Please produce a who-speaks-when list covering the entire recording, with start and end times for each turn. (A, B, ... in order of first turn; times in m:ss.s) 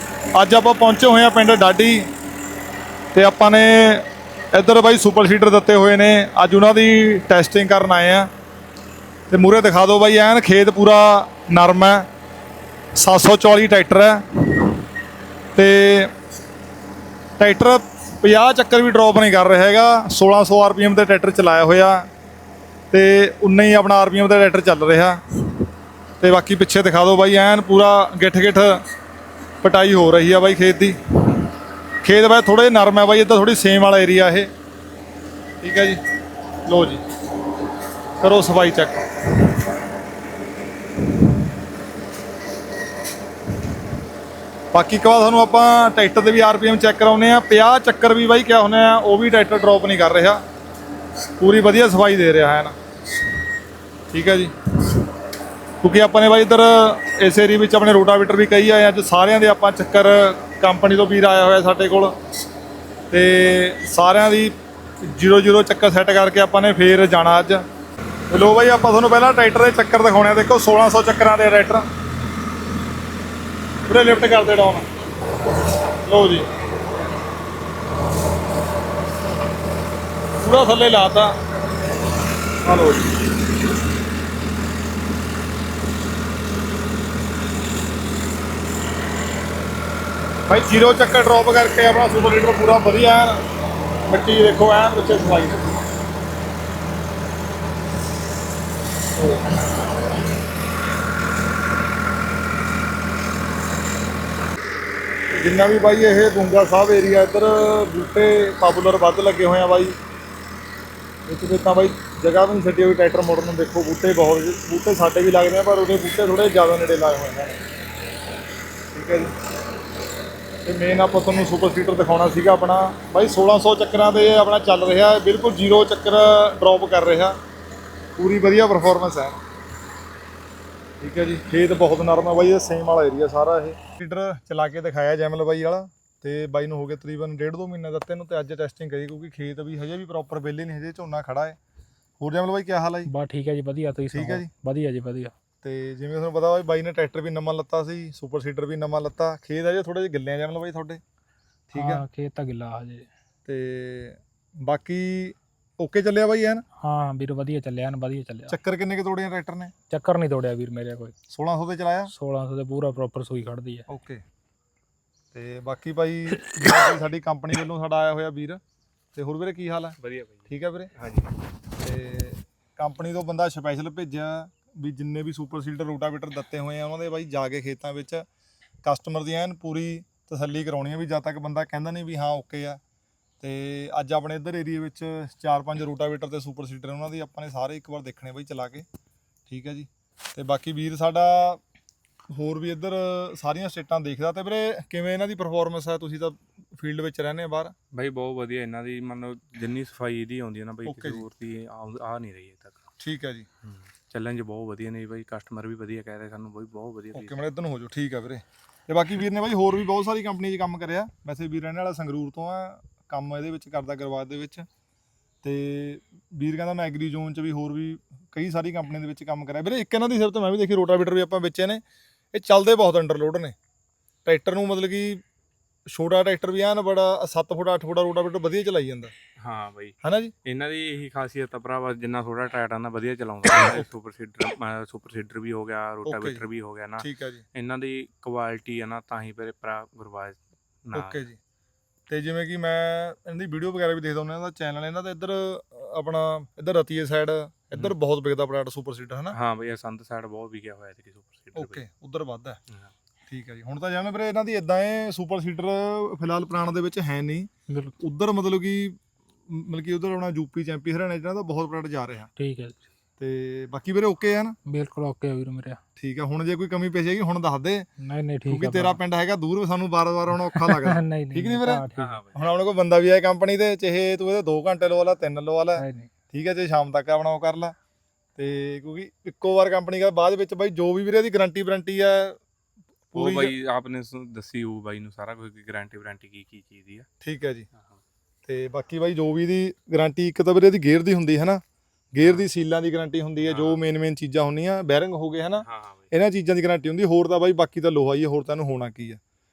0:00.4-0:02.1 A
0:03.1-0:08.3 A
0:09.3-0:12.1 A
0:13.0-0:14.7 A
0:15.6-0:16.1 A
0:17.4-0:22.1 A
0:22.9-0:25.2 A
0:26.2-0:28.8 A
0:29.6-0:31.4 A
0:32.0-0:34.5 A
0:35.6-0:36.0 A
0:36.7-0:37.0 A
0:38.2-0:39.6 A
0:44.7-0:50.4 A
0:51.4-0:52.8 A
0:54.1-0:55.0 A
0:55.8-1:02.1 A
1:03.1-1:07.6 A
1:08.3-1:11.8 A
1:13.9-1:14.9 A
1:15.9-1:16.5 A
1:20.4-1:21.3 A
1:22.6-1:23.4 A
1:30.5-1:33.4 A
1:34.1-1:35.7 A
1:39.2-1:39.9 A
1:45.4-1:50.0 A
1:51.3-1:57.6 A
1:58.9-1:59.3 A
2:00.6-2:07.4 A
2:08.2-2:09.4 A
2:11.0-2:21.6 A
2:22.2-2:23.1 A
2:23.1-2:25.3 B
2:24.1-2:24.5 A
2:25.6-2:31.0 A
2:31.7-2:32.0 A
2:31.8-2:33.1 B
2:33.4-2:36.6 A
2:36.8-2:38.6 B
2:38.5-2:39.7 A
2:39.9-2:41.1 B
2:41.3-2:42.1 A
2:42.1-2:43.9 B
2:43.9-2:44.2 A
2:45.3-2:48.6 A
2:49.2-2:50.0 A
2:50.0-2:51.3 C
2:50.5-2:50.9 A
2:51.8-2:58.2 A
2:58.8-3:02.8 A
3:03.4-3:08.9 A
3:09.5-3:11.6 A
3:12.3-3:17.7 A
3:17.9-3:22.8 C
3:20.8-3:21.2 A
3:23.0-3:23.5 A
3:23.6-3:27.4 C
3:27.1-3:34.7 A
3:35.4-3:43.6 A
3:44.3-3:45.2 A
3:45.9-3:49.1 A
3:49.4-4:01.2 C
3:50.0-3:50.3 A
3:56.0-3:56.4 A
3:57.0-3:57.4 A
4:00.9-4:01.4 A
4:02.1-4:09.4 A
4:09.3-4:11.8 C
4:11.6-4:12.6 A
4:13.3-4:19.0 A
4:17.7-4:18.0 B
4:19.5-4:22.3 A
4:22.4-4:22.8 B
4:23.2-4:24.6 A
4:24.6-4:25.8 B
4:26.0-4:27.9 A
4:28.0-4:29.0 B
4:28.5-4:37.8 A
4:30.5-4:32.2 B
4:32.0-4:32.5 C
4:35.8-4:36.1 B
4:38.4-4:42.4 A
4:43.1-4:43.5 A
4:43.2-4:47.1 C
4:47.2-4:47.7 A
4:48.5-4:51.6 A
4:52.1-4:59.2 A
4:52.2-4:52.5 C
4:53.4-4:53.8 C
4:55.6-4:56.1 C